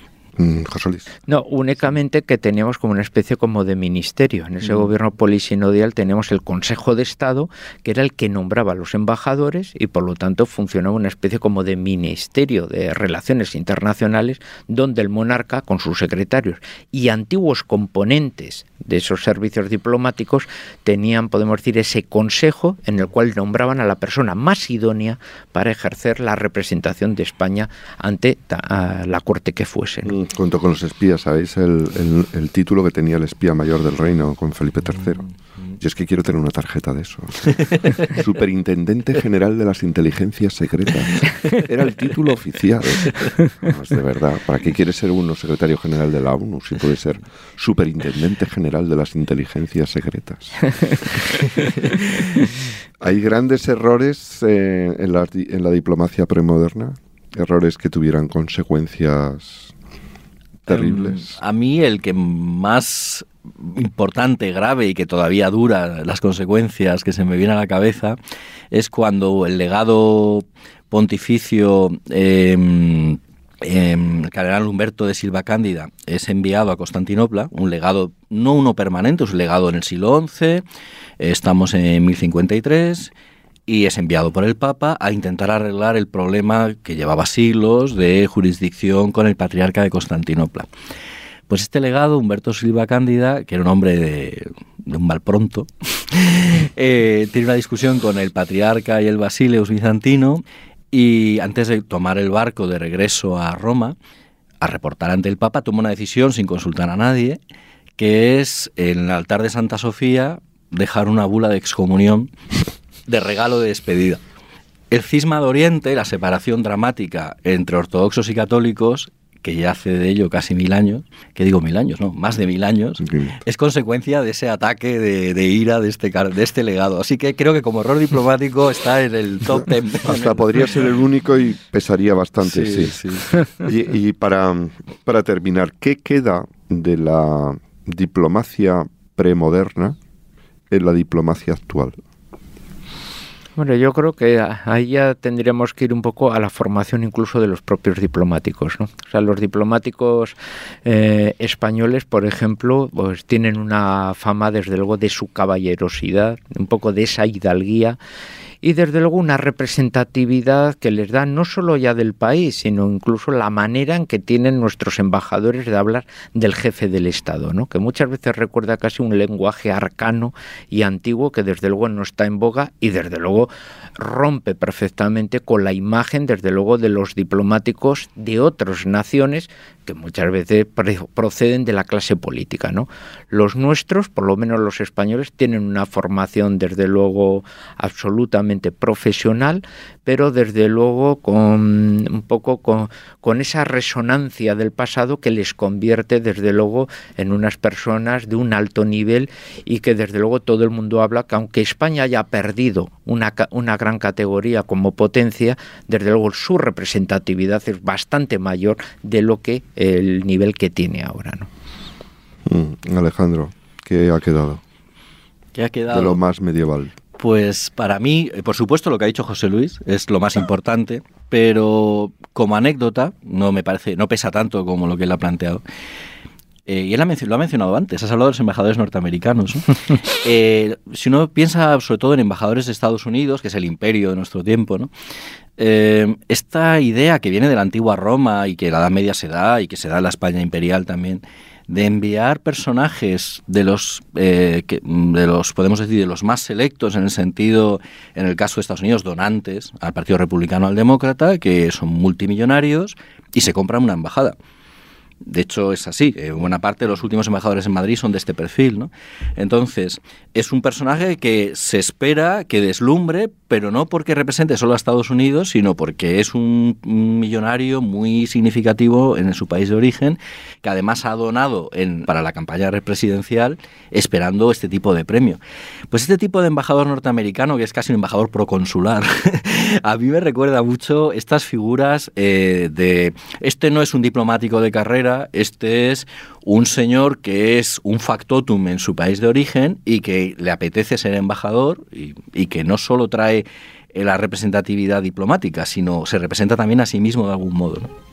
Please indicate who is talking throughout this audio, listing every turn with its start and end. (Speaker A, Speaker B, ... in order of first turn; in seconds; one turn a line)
Speaker A: 0.4-1.1
Speaker B: 1.3-30.1
Speaker A: 30.1-35.2
Speaker A: 35.8-51.3
Speaker A: 53.0-59.7
Speaker A: 60.7-61.3
Speaker C: 60.7-68.2
Speaker C: 68.7-80.6
Speaker C: 81.2-83.1
Speaker C: 83.7-90.7
Speaker C: 91.5-104.0
Speaker C: 104.6-107.4
Speaker C: 108.0-112.3
Speaker C: 113.1-114.2
Speaker C: 114.9-130.5
Speaker A: 123.0-123.3
Speaker A: 129.6-140.0
Speaker C: 132.4-133.4
Speaker A: 140.7-142.0
Speaker B: 143.6-158.0
Speaker B: 158.6-211.5
Speaker A: 212.5-214.6
Speaker C: 215.6-216.2
Speaker A: 215.9-216.9
Speaker C: 217.2-225.6
Speaker C: 226.7-234.9
Speaker C: 235.6-254.4
Speaker C: 255.2-275.4
Speaker C: 275.9-297.9